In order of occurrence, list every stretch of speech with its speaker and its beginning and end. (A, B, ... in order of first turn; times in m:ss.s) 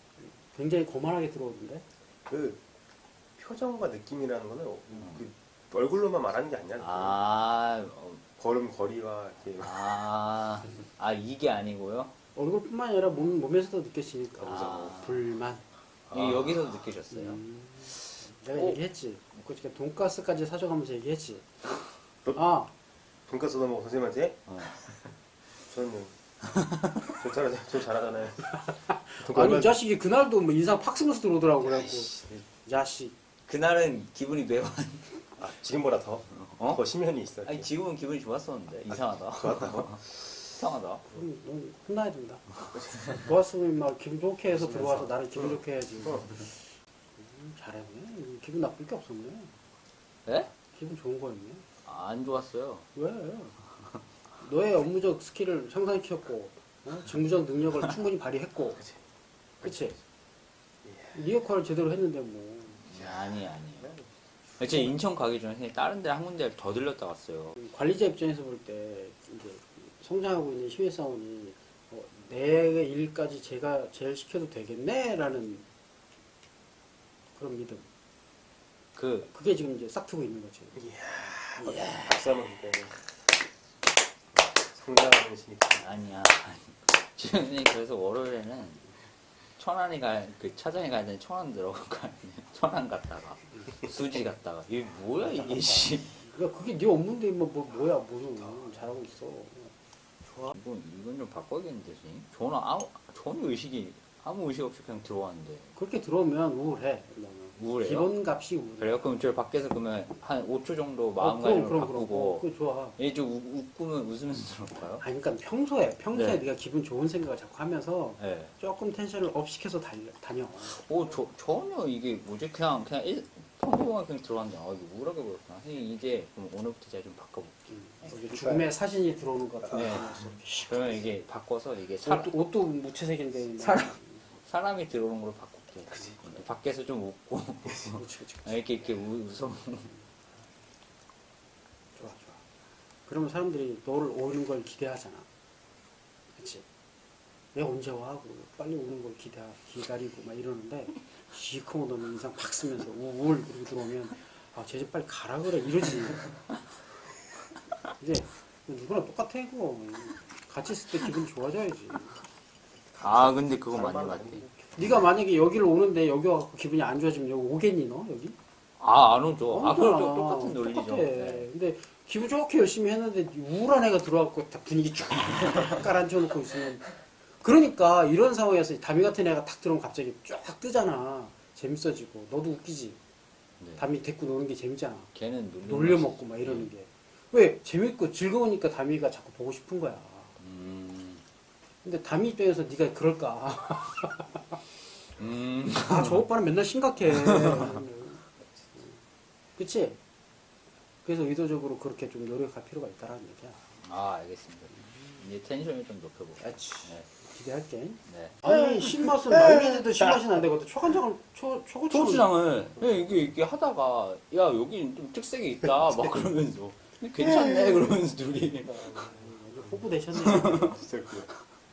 0:00.2-0:01.9 A
0:02.3-0:02.6 B
0:03.4-0:07.2 B
0:06.8-0:08.2 C
0:08.4-0:09.8 B
0:09.6-0:12.1 C
0:12.4-0:15.6 A
0:14.4-0:15.2 C
0:16.1-0:17.4 C
0:16.1-0:16.4 B
0:17.1-0:21.5 A
0:22.4-0:22.7 A
0:23.3-0:24.5 B
0:24.5-0:24.8 C
0:25.7-0:26.2 B
0:27.2-0:28.5 B
0:28.9-0:33.1 A
0:29.2-0:29.8 B
0:31.7-0:32.4 B
0:33.5-0:35.1 C
0:35.4-0:37.7 B
0:36.3-0:36.8 C
0:37.4-0:41.0 C
0:38.9-0:40.0 B
0:41.1-0:42.6 A
0:42.7-0:43.2 B
0:43.1-0:46.5 A
0:44.5-0:46.3 B
0:47.2-0:49.5 A
0:50.7-0:51.6 A
0:51.8-0:52.9 C
0:53.0-0:53.5 A
0:54.4-0:58.8 A
0:59.6-0:59.9 B
0:59.6-1:00.0 A
1:00.8-1:01.2 B
1:01.1-1:02.8 A
1:02.8-1:04.0 C
1:04.6-1:07.6 C
1:07.6-1:15.7 A
1:17.4-1:17.9 A
1:19.0-1:19.3 C
1:19.2-1:20.8 A
1:20.8-1:23.0 B
1:21.6-1:21.9 A
1:21.7-1:22.1 C
1:24.7-1:25.9 B
1:25.8-1:28.8 C
1:29.6-1:36.2 C
1:35.4-1:39.7 A
1:40.4-1:45.7 C
1:45.8-1:49.0 A
1:47.6-1:48.1 C
1:48.8-1:52.4 C
1:51.2-1:53.0 A
1:53.0-1:55.0 C
1:55.0-2:00.8 A
1:56.1-1:56.4 C
1:58.2-1:58.5 C
2:00.6-2:08.2 C
2:07.7-2:11.2 A
2:09.7-2:12.4 C
2:12.0-2:14.2 A
2:13.6-2:19.9 C
2:17.9-2:18.6 A
2:22.0-2:22.4 A
2:23.1-2:25.3 A
2:26.4-2:26.6 A
2:27.5-2:36.3 A
2:38.0-2:42.2 A
2:43.0-2:44.4 C
2:43.7-2:44.6 B
2:44.6-2:48.4 A
2:48.8-2:51.5 C
2:49.5-3:03.0 A
3:03.6-3:03.8 C
3:03.8-3:05.1 A
3:05.1-3:06.7 C
3:05.6-3:10.4 A
3:10.4-3:11.2 C
3:11.8-3:14.5 A
3:15.2-3:16.2 C
3:15.8-3:19.0 A
3:17.1-3:17.7 C
3:19.6-3:20.0 A
3:21.0-3:23.6 A
3:23.8-3:27.1 C
3:26.4-3:32.3 A
3:28.1-3:28.4 C
3:29.5-3:29.8 B
3:31.9-3:38.8 C
3:32.8-3:33.0 B
3:38.7-3:39.2 B
3:39.1-3:40.7 A
3:40.2-3:40.6 C
3:40.3-3:41.3 B